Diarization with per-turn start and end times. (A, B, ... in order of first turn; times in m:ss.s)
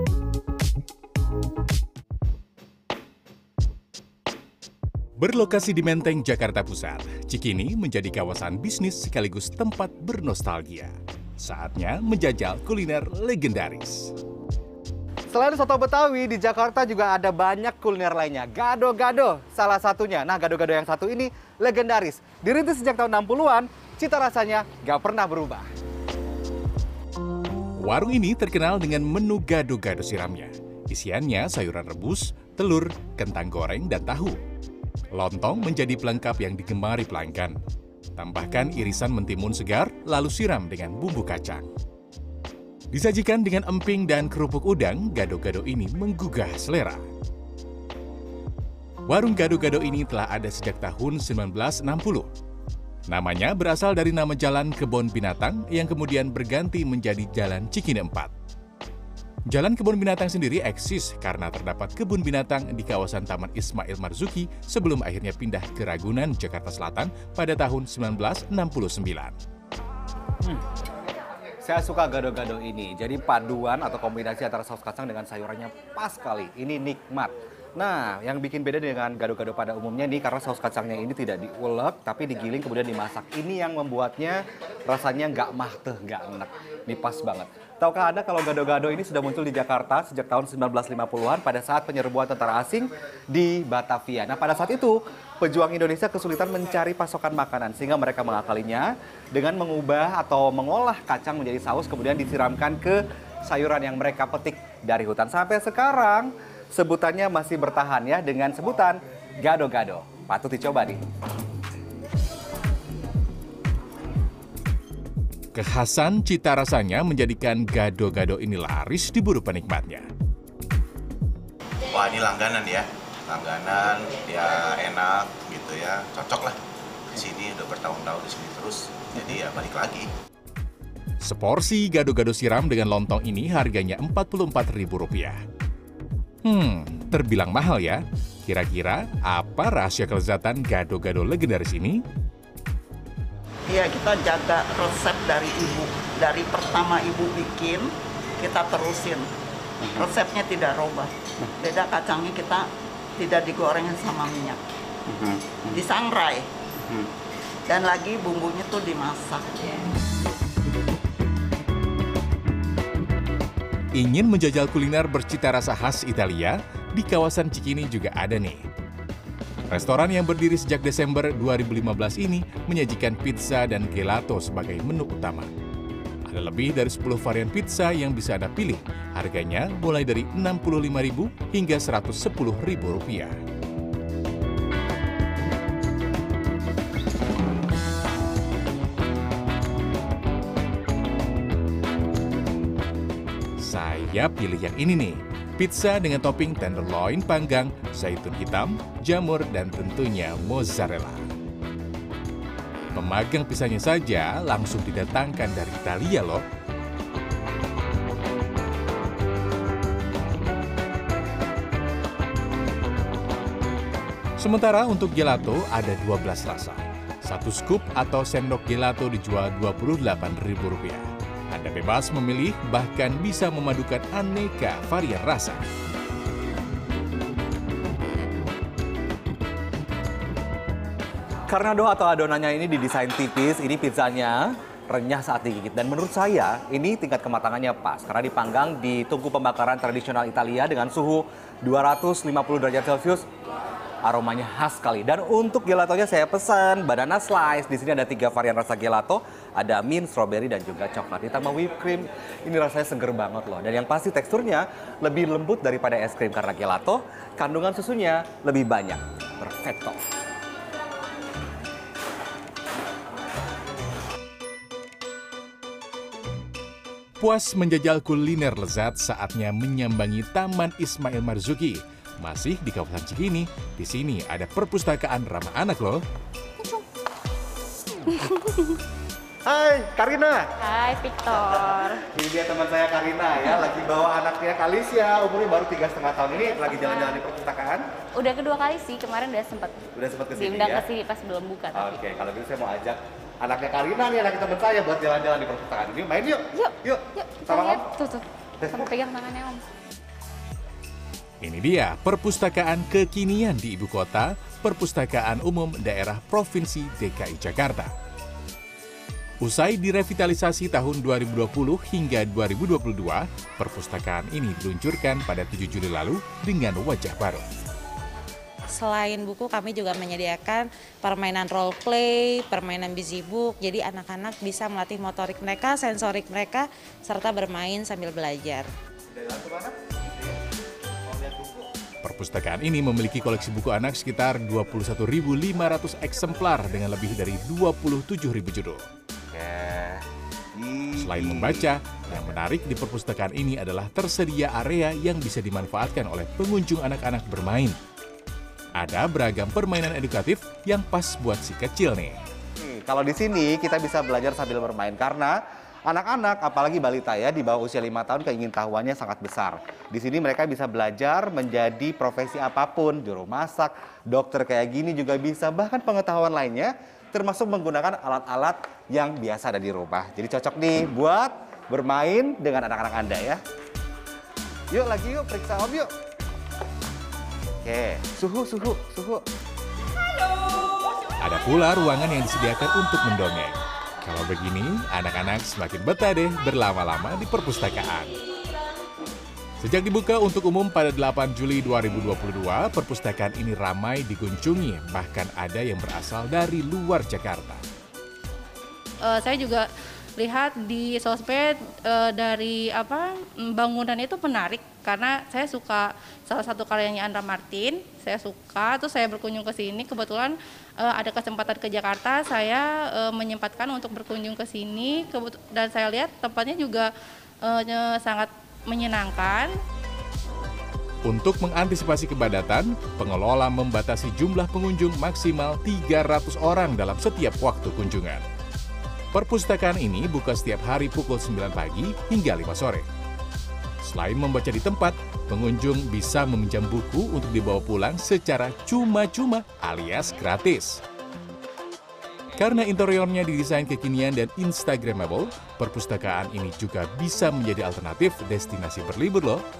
0:05.2-0:14.1 A
0:15.3-0:25.6 B
0:27.8-0:34.4 A
0:35.1-0:37.6 A
0:38.1-0:41.7 A
0:42.9-0:47.0 A
0:49.1-0:52.3 A
0:53.1-0:58.3 A
0:59.5-1:09.4 A
1:11.6-1:51.0 B
1:55.5-2:00.1 A
2:01.9-2:06.6 C
2:07.1-2:10.1 C
2:11.2-2:15.4 A
2:16.4-2:22.0 A
2:23.7-2:27.8 D
2:28.4-2:29.2 D
2:30.2-2:31.1 D
2:31.6-2:32.6 D
2:33.2-2:34.6 D
2:35.7-2:36.5 D
2:37.7-2:39.4 D
2:43.9-2:48.6 A
2:49.7-2:55.5 A
2:56.3-3:03.4 A
3:13.6-3:21.3 A
3:22.9-3:26.4 A
3:34.4-3:45.6 A
3:51.5-4:03.2 B
4:04.0-4:20.0 B
4:27.2-4:36.0 A
4:38.2-4:38.5 E
4:39.4-4:40.5 B
4:40.6-4:42.0 E
4:41.3-4:47.8 B
4:46.4-4:47.2 E
4:48.1-4:52.0 E
4:49.9-4:50.8 B
4:51.7-4:57.9 B
4:56.6-4:59.6 E
4:58.6-4:58.9 B
5:01.4-5:07.9 A
5:09.4-5:17.4 A
5:18.7-5:28.7 F
5:29.1-5:30.4 B
5:31.0-5:31.7 B
5:32.0-5:38.8 A
5:39.3-5:40.0 C
5:40.6-5:41.8 C
5:41.0-5:47.8 A
5:48.8-5:52.2 A
5:52.6-5:55.4 B
5:55.9-6:13.4 B
6:14.7-6:15.9 B
6:17.6-6:19.2 B
6:21.2-6:28.2 A
6:29.6-6:37.6 A
6:39.0-6:39.6 G
6:40.2-6:56.9 G
6:57.4-6:59.5 G
7:01.0-7:08.2 A
7:09.1-7:12.8 A
7:13.8-7:20.8 A
7:22.4-7:29.4 A